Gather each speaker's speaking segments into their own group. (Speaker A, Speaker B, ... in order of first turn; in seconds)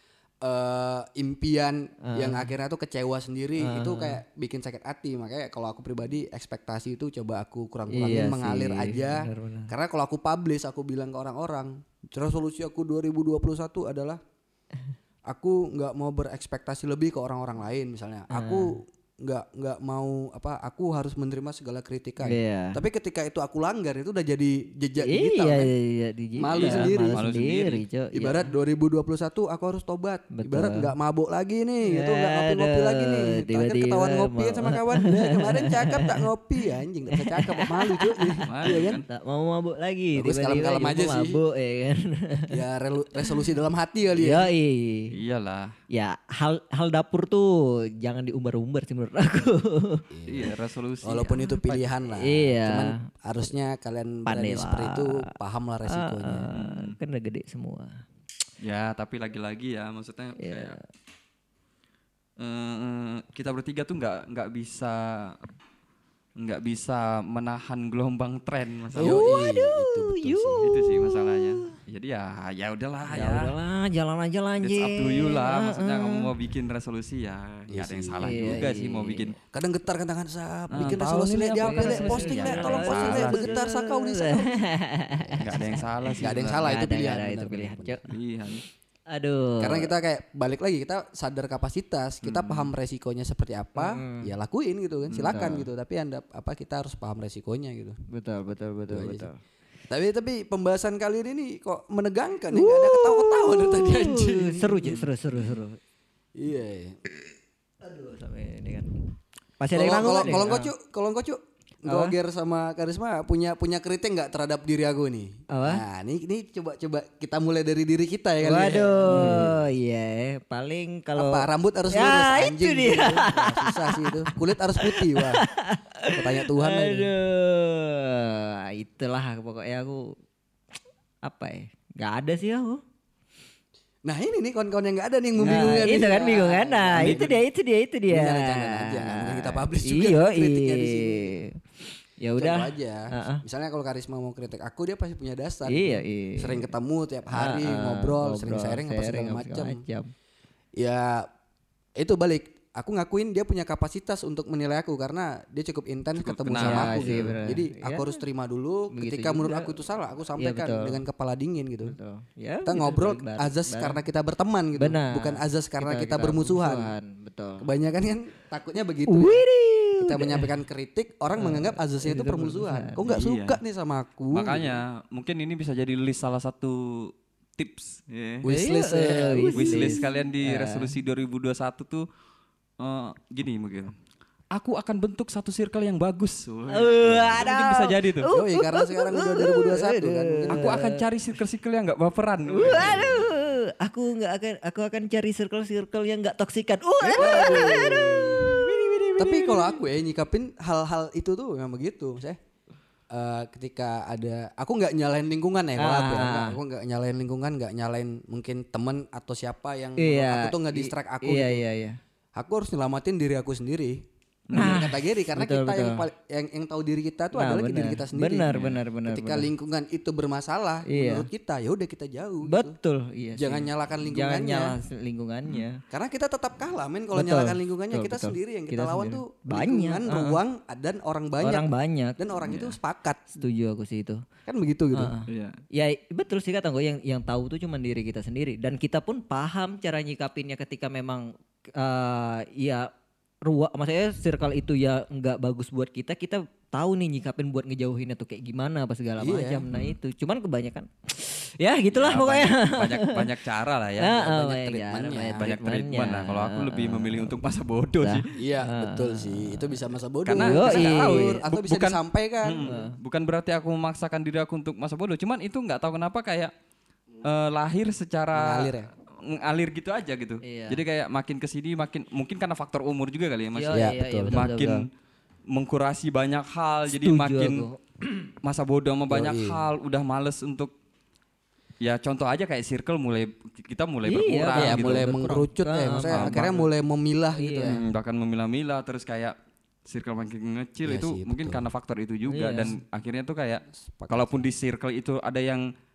Speaker A: 0.4-14.2, 15.3-25.7, 26.4-27.2, 28.1-39.0, 40.1-41.4, 42.5-44.5, 50.1-50.5, 51.0-56.5, 69.0-70.7, 77.7-78.7, 79.5-84.6, 85.2-85.7, 86.2-88.0, 89.6-98.0, 98.9-99.3, 99.9-105.1, 106.4-107.0, 109.7-119.6, 121.2-125.5, 126.1-127.1, 134.1-137.4, 138.1-141.3, 142.4-149.8, 150.8-151.3, 152.0-162.0, 162.7-166.9, 167.6-169.4, 170.0-174.8, 178.4-180.1, 188.3-190.8, 192.7-193.1, 197.1-198.6, 199.2-202.4, 203.1-211.6, 212.3-222.8, 223.4-224.7, 225.9-233.3, 234.5-235.1, 249.2-249.6, 254.3-255.4, 258.3-262.7, 268.3-268.9, 273.7-274.4, 279.1-279.6, 284.5-287.8, 290.9-291.6, 293.8-294.5
Speaker B: 2.0-2.5, 3.6-4.2, 7.9-9.7, 18.3-18.8, 22.2-22.8, 25.0-28.5, 30.3-30.9, 31.9-42.6, 44.2-45.1, 45.9-50.0, 52.2-53.0, 54.3-55.3, 55.9-58.0, 60.4-60.8, 69.0-71.8, 73.1-76.3, 78.2-79.3, 81.6-88.1, 89.1-89.9, 93.8-94.3, 95.1-95.7, 98.1-99.4, 102.5-105.8, 107.8-109.0, 109.6-110.7, 111.9-112.2, 115.5-115.8, 118.4-130.2, 131.2-132.8, 135.4-143.4, 145.7-146.7, 147.3-150.1, 156.6-158.2, 158.9-159.8, 160.4-161.0, 161.8-164.0, 164.8-167.7, 169.1-170.5, 171.4-173.0, 178.5-181.0, 186.7-191.1, 192.5-199.8, 205.8-206.6, 210.0-212.0, 214.5-216.1, 217.3-219.5, 220.9-221.3, 222.4-225.8, 227.1-230.4, 231.4-232.7, 233.3-234.2, 234.9-242.9, 243.4-253.2, 254.0-257.4, 258.0-261.4, 262.6-263.0, 270.4-270.8, 273.6-274.9, 276.9-278.3, 284.1-286.7, 287.4-287.8, 292.3-292.8
Speaker C: 26.6-27.8, 38.5-39.1, 45.1-45.8, 50.3-51.9, 56.5-57.0, 58.6-60.8, 62.4-65.5, 66.4-69.5, 70.6-73.5, 74.6-79.3, 80.7-83.5, 85.4-86.7, 88.1-88.6, 92.2-92.7, 95.1-95.6, 135.5-135.9, 136.9-137.3, 156.2-157.4, 173.0-173.6, 174.3-178.4, 179.6-182.1, 182.8-183.9, 184.5-188.3, 190.5-193.3, 197.3-197.7, 214.5-214.8, 218.5-218.8, 235.3-235.6, 251.9-254.4, 255.4-258.3, 260.3-266.5, 267.2-274.9, 275.5-277.7, 278.4-280.7, 281.8-285.2, 286.1-286.5, 287.7-289.4, 289.9-295.7